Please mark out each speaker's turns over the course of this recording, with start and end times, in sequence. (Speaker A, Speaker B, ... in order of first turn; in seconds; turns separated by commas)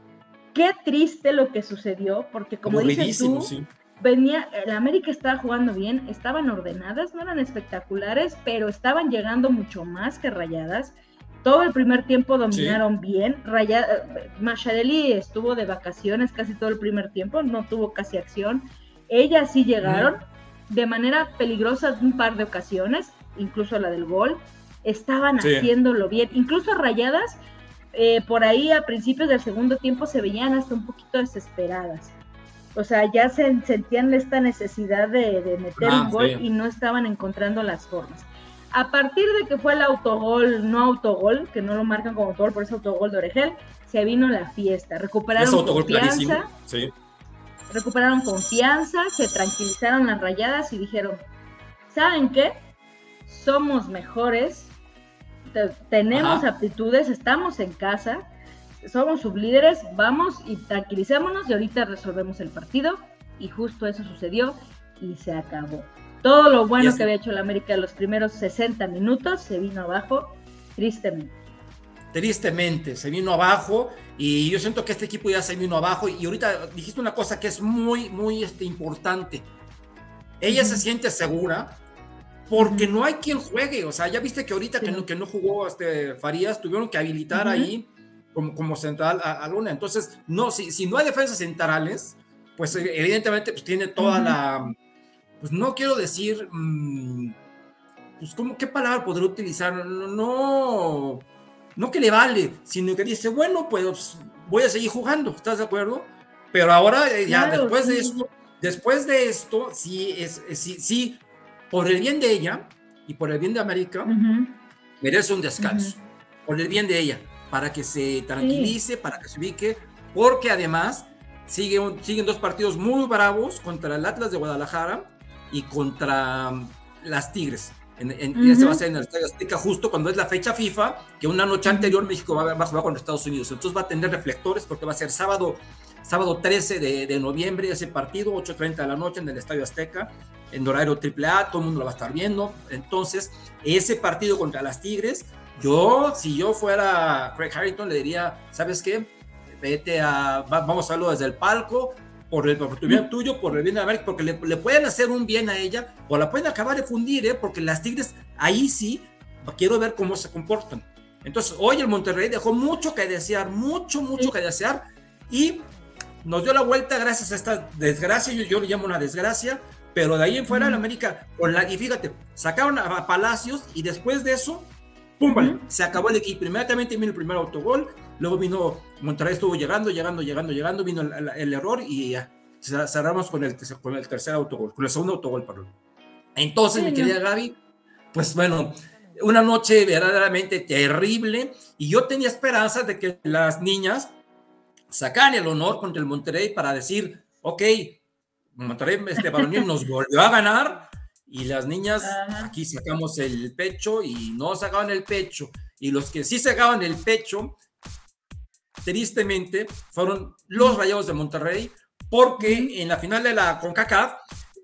Speaker A: 0.5-10.9, Speaker B: 2.6-3.7, Speaker A: 11.4-27.4, Speaker B: 12.5-12.8, Speaker B: 19.8-20.1, Speaker B: 25.4-25.7, Speaker A: 27.9-32.1, Speaker A: 32.8-46.5, Speaker B: 35.8-36.4, Speaker B: 45.4-46.9, Speaker A: 47.7-51.2, Speaker A: 51.9-52.6, Speaker A: 53.3-54.7, Speaker A: 55.5-58.2, Speaker B: 56.1-56.5, Speaker A: 58.8-71.3, Speaker B: 66.8-67.0, Speaker B: 72.1-79.5, Speaker B: 80.4-81.8, Speaker A: 80.5-80.8, Speaker B: 82.5-94.7, Speaker A: 82.6-82.9, Speaker A: 84.8-85.1, Speaker A: 87.3-87.7, Speaker A: 94.0-94.4, Speaker B: 95.4-97.3, Speaker B: 98.2-114.1, Speaker A: 107.3-108.2, Speaker A: 114.0-114.6, Speaker B: 115.0-165.7, Speaker A: 115.6-116.0, Speaker A: 118.4-118.7, Speaker A: 128.3-128.8, Speaker A: 131.7-131.9, Speaker B: 166.2-185.7, Speaker A: 170.5-170.8, Speaker A: 175.3-175.6, Speaker B: 186.3-187.6, Speaker A: 186.7-187.1, Speaker B: 188.1-194.1, Speaker B: 194.9-198.0, Speaker B: 198.6-207.6, Speaker A: 199.2-199.6, Speaker A: 202.0-202.5, Speaker B: 208.8-214.2, Speaker A: 212.4-212.7